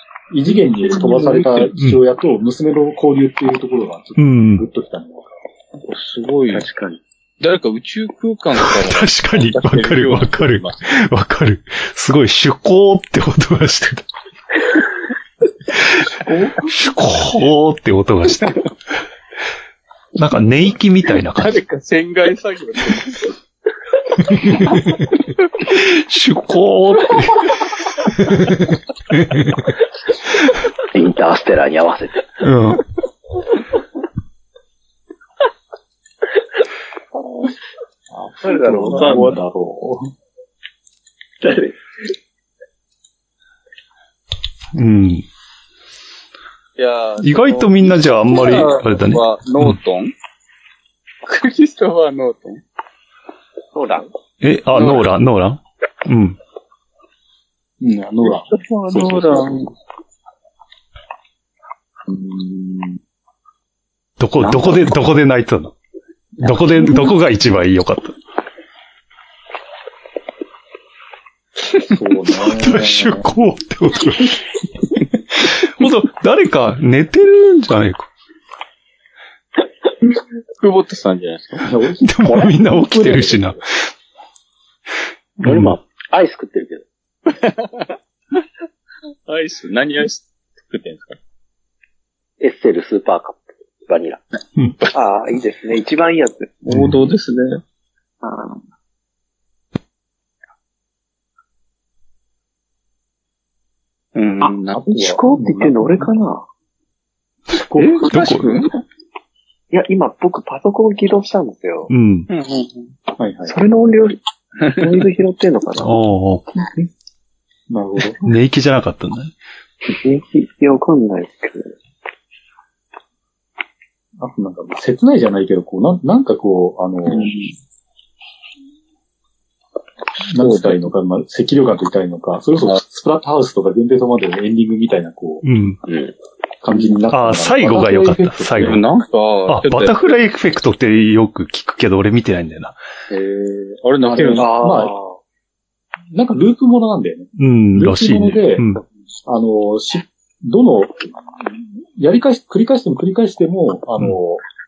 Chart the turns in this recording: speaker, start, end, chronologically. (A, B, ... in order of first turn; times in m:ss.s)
0:00.3-0:05.3 A
0:01.2-0:01.5 B
0:01.7-0:02.0 C
0:04.2-0:04.6 C
0:05.8-0:06.7 B
0:06.5-0:07.0 D
0:07.4-0:10.9 B
0:08.6-0:14.0 C
0:16.3-0:16.6 B
0:16.6-0:18.7 C
0:20.2-0:21.6 C
0:21.2-0:23.3 B
0:24.3-0:29.7 C
0:30.9-0:32.4 E
0:32.4-0:32.8 C
0:38.1-0:40.1 A
0:38.4-0:39.3 D
0:38.9-0:39.3 B
0:44.7-0:45.2 C
0:46.8-0:50.1 B
0:47.2-0:49.8 C
0:51.2-0:52.6 B
0:53.7-0:54.1 D
0:54.4-0:56.4 C
0:54.7-0:55.1 B
0:57.8-0:59.6 A
0:58.2-0:59.7 B
1:02.1-1:03.0 A
1:04.2-1:05.7 C
1:04.4-1:04.7 B
1:06.4-1:08.1 C
1:11.8-1:13.3 A
1:12.3-1:14.5 C
1:15.3-1:18.1 C
1:20.0-1:21.7 B
1:21.6-1:23.6 A
1:22.0-1:23.9 C
1:25.4-1:26.8 E
1:25.4-1:25.8 C
1:27.3-1:28.4 B
1:29.2-1:31.2 B
1:32.4-1:34.2 E
1:34.9-1:36.5 D
1:36.6-1:37.6 B
1:36.7-1:37.0 C
1:38.2-1:38.6 D
1:44.1-1:44.8 B
1:44.4-1:46.4 D
1:44.7-1:46.0 A
1:47.6-1:48.1 A
1:47.7-1:48.8 B
1:48.1-1:48.5 C
1:49.7-1:51.9 D
1:51.9-1:52.3 C
1:52.3-1:52.9 B
1:53.2-1:53.6 A
1:53.4-1:56.0 D
1:54.6-1:54.8 B
1:55.8-1:56.6 C
1:57.7-1:58.2 A
1:58.2-1:59.3 C
1:59.9-2:01.8 D
2:04.2-2:07.3 A
2:07.1-2:07.4 B
2:10.3-2:15.4 A
2:10.3-2:10.9 B
2:15.4-2:15.8 C
2:15.9-2:16.1 E
2:16.6-2:18.8 A
2:17.1-2:18.8 C
2:18.6-2:20.2 B
2:19.5-2:22.8 C
2:23.1-2:24.7 B
2:24.0-2:24.9 A
2:24.4-2:25.2 D
2:26.1-2:28.6 A
2:27.4-2:28.8 C
2:29.2-2:34.4 A